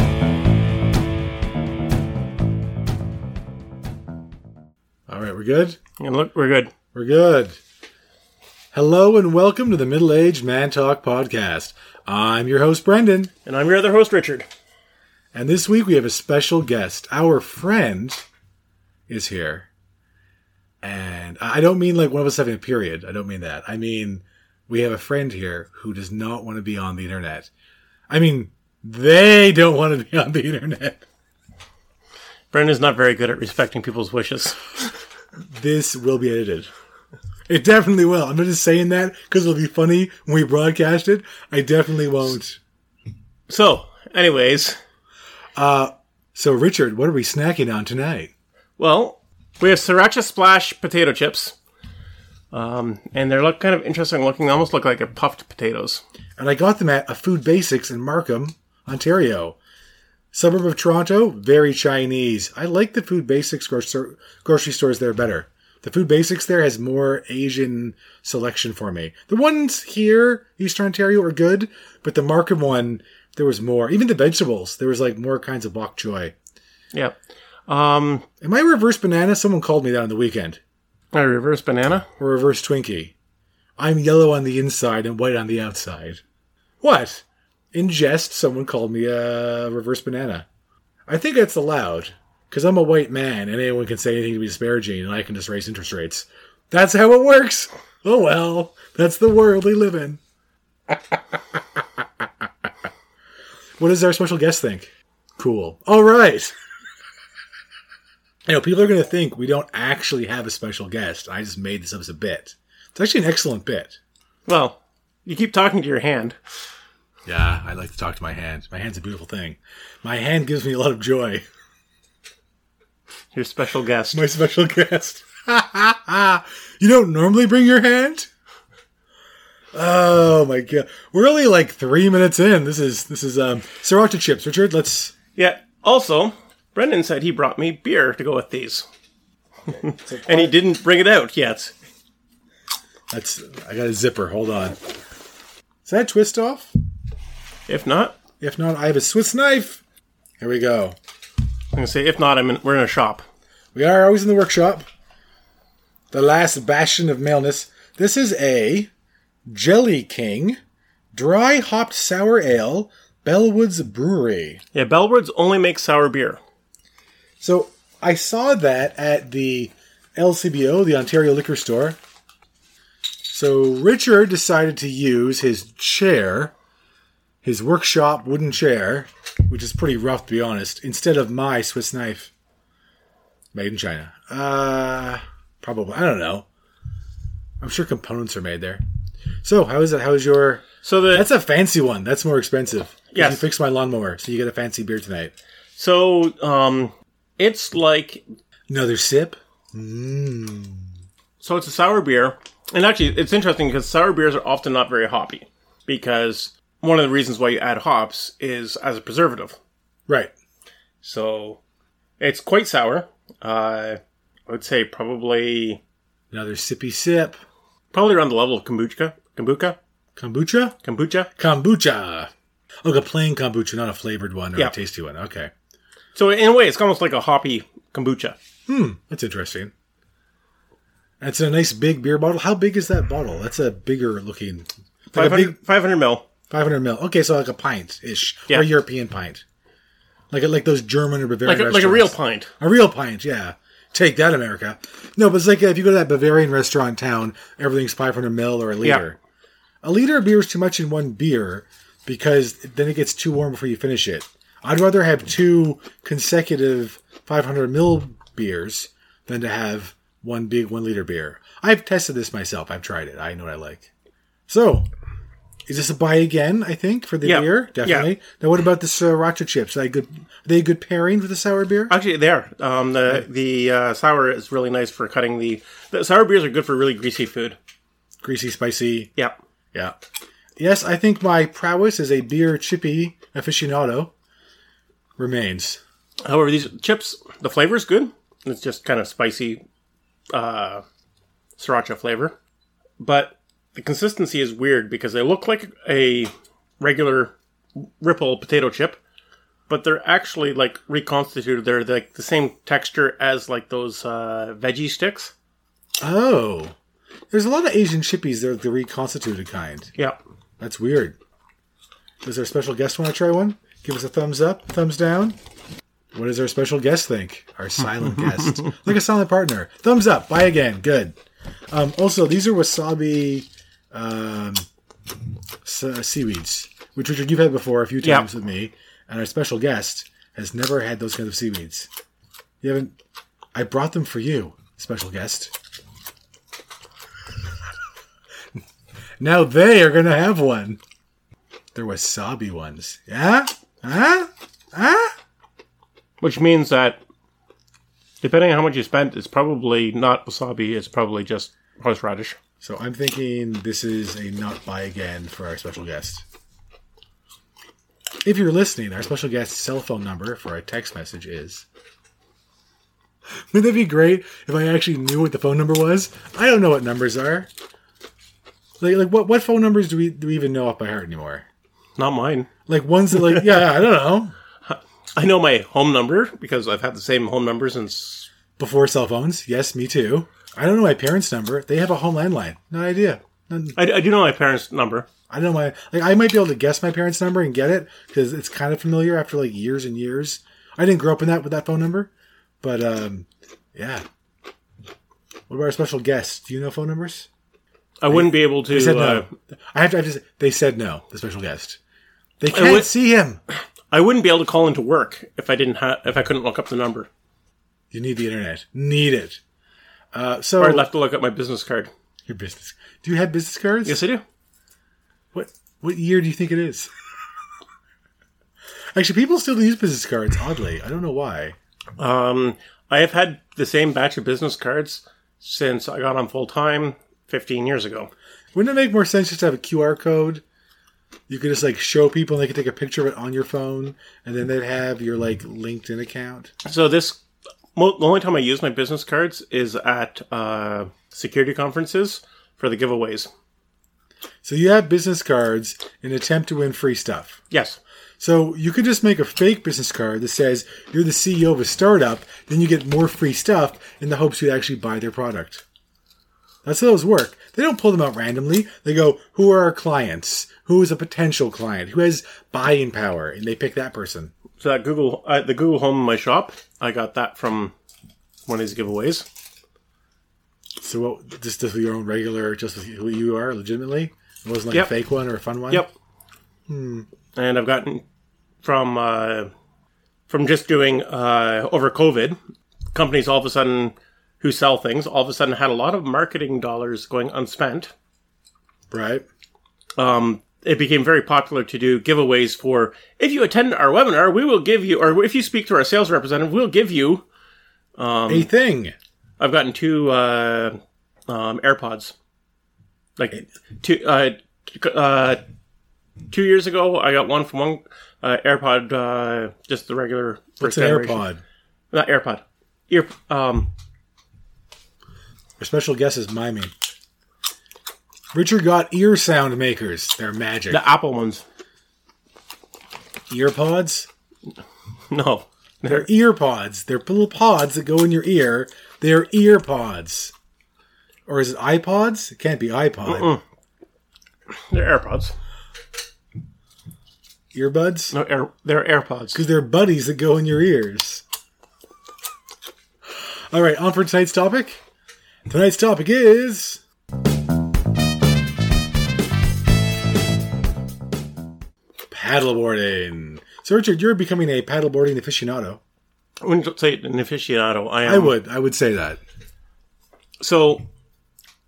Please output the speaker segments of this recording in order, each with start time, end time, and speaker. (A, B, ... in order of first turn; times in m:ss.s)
0:05.1-0:05.8 A
0:06.0-0:06.7 B
0:06.9-0:07.6 A
0:08.7-0:13.3 A
0:13.4-0:14.5 B
0:15.3-0:18.2 A
0:19.1-0:19.7 A
0:20.8-0:27.5 A
0:28.1-0:31.0 A
0:32.5-0:34.9 B
0:35.5-0:36.7 A
0:37.5-0:42.6 A
0:43.5-0:44.8 B
0:45.6-0:48.3 A
0:48.8-0:51.6 B
0:52.5-0:56.0 B
0:56.4-0:59.6 A
1:00.3-1:16.3 A
1:16.9-1:18.2 B
1:18.4-1:20.6 A
1:21.1-1:22.1 B
1:22.2-1:23.1 A
1:23.8-1:26.2 A
1:26.8-1:30.5 A
1:31.1-1:40.2 A
1:41.1-1:41.8 A
1:43.8-1:46.5 A
1:48.5-1:54.0 A
1:54.5-1:56.4 B
1:57.2-2:01.4 A
2:03.3-2:04.2 B
2:04.1-2:08.3 A
2:09.7-2:15.1 A
2:15.4-2:18.8 B
2:19.7-2:20.5 A
2:19.7-2:21.7 B
2:23.1-2:24.8 A
2:25.8-2:26.7 A
2:27.7-2:28.2 B
2:28.4-2:29.8 A
2:30.4-2:31.0 A
2:31.7-2:33.2 B
2:33.8-2:34.8 A
2:36.1-2:38.9 A
2:39.5-2:40.6 A
2:41.1-2:44.6 A
2:44.7-2:46.4 B
2:47.4-2:52.0 A
2:53.3-2:56.5 A
2:57.4-3:02.3 A
3:03.5-3:06.5 A
3:07.6-3:08.8 A
3:09.4-3:15.3 A
3:10.8-3:11.3 B
3:13.1-3:13.5 B
3:15.8-3:18.2 B
3:18.7-3:20.9 A
3:21.4-3:29.6 B
3:31.0-3:31.6 B
3:32.2-3:35.8 B
3:36.3-3:37.4 A
3:37.9-3:39.8 B
3:40.2-3:40.8 A
3:40.8-3:41.3 B
3:41.4-3:42.3 A
3:42.8-3:45.5 A
3:46.2-3:48.4 B
3:48.7-3:49.7 A
3:51.2-3:55.6 A
3:55.1-3:56.2 B
3:56.5-3:59.4 A
4:00.3-4:09.2 A
4:01.4-4:02.5 B
4:09.8-4:23.9 A
4:24.5-4:24.9 A
4:25.7-4:31.9 A
4:27.2-4:28.1 B
4:31.9-4:37.6 B
4:38.2-4:39.1 A
4:40.6-4:44.1 A
4:45.2-4:45.8 A
4:46.2-4:49.6 B
4:50.3-4:50.8 B
4:51.6-4:52.4 B
4:53.0-4:59.0 B
4:59.7-5:05.3 B
5:06.0-5:06.8 A
5:07.3-5:09.9 A
5:10.6-5:11.2 A
5:12.2-5:15.4 A
5:16.1-5:21.2 A
5:21.7-5:24.7 A
5:25.6-5:31.9 A
5:32.6-5:32.9 A
5:33.6-5:35.5 A
5:39.2-5:40.8 A
5:41.8-5:45.2 A
5:46.2-5:47.0 B
5:48.2-5:52.4 B
5:52.6-5:56.2 A
5:58.2-6:01.6 A
6:03.5-6:07.5 A
6:08.8-6:11.5 A
6:12.0-6:12.5 B
6:12.7-6:14.4 A
6:13.1-6:13.5 B
6:14.7-6:18.3 B
6:18.6-6:23.8 A
6:23.8-6:25.1 B
6:25.3-6:32.1 A
6:32.6-6:34.0 A
6:35.5-6:37.3 A
6:38.0-6:39.3 B
6:38.1-6:41.8 A
6:42.4-6:43.4 A
6:42.5-6:42.9 B
6:43.9-6:47.1 B
6:47.9-6:49.4 A
6:50.1-6:50.9 A
6:50.6-6:51.9 B
6:52.3-6:54.0 A
6:53.8-6:54.2 B
6:55.3-6:56.9 A
6:58.9-7:01.6 A
7:02.0-7:08.1 B
7:08.5-7:10.4 A
7:11.3-7:16.5 A
7:16.6-7:17.2 B
7:17.8-7:23.3 B
7:24.4-7:27.4 A
7:27.5-7:27.8 B
7:28.2-7:35.6 A
7:36.6-7:44.3 A
7:44.6-7:47.7 B
7:48.5-7:49.2 B
7:50.8-7:55.9 A
7:56.7-7:57.1 A
7:57.4-7:58.0 B
7:58.6-7:59.5 B
8:00.3-8:02.4 B
8:02.9-8:07.9 B
8:08.9-8:09.2 A
8:10.0-8:17.2 B
8:18.0-8:18.5 B
8:18.3-8:18.9 A
8:19.4-8:20.8 B
8:21.3-8:22.1 B
8:23.2-8:25.4 B
8:26.3-8:31.2 B
8:30.6-8:31.4 A
8:31.9-8:33.7 B
8:35.6-8:36.7 A
8:38.3-8:40.8 A
8:40.7-8:41.4 B
8:43.3-8:44.1 A
8:45.1-8:46.1 B
8:45.9-8:50.3 A
8:51.3-8:53.4 A
8:53.0-8:53.4 B
8:54.5-8:55.3 B
8:57.5-8:58.1 A
8:58.1-8:59.4 B
8:59.3-9:01.2 A
9:03.5-9:04.8 A
9:05.4-9:06.8 A
9:12.1-9:15.8 A
9:16.4-9:18.4 B
9:18.0-9:19.2 A
9:20.4-9:20.9 B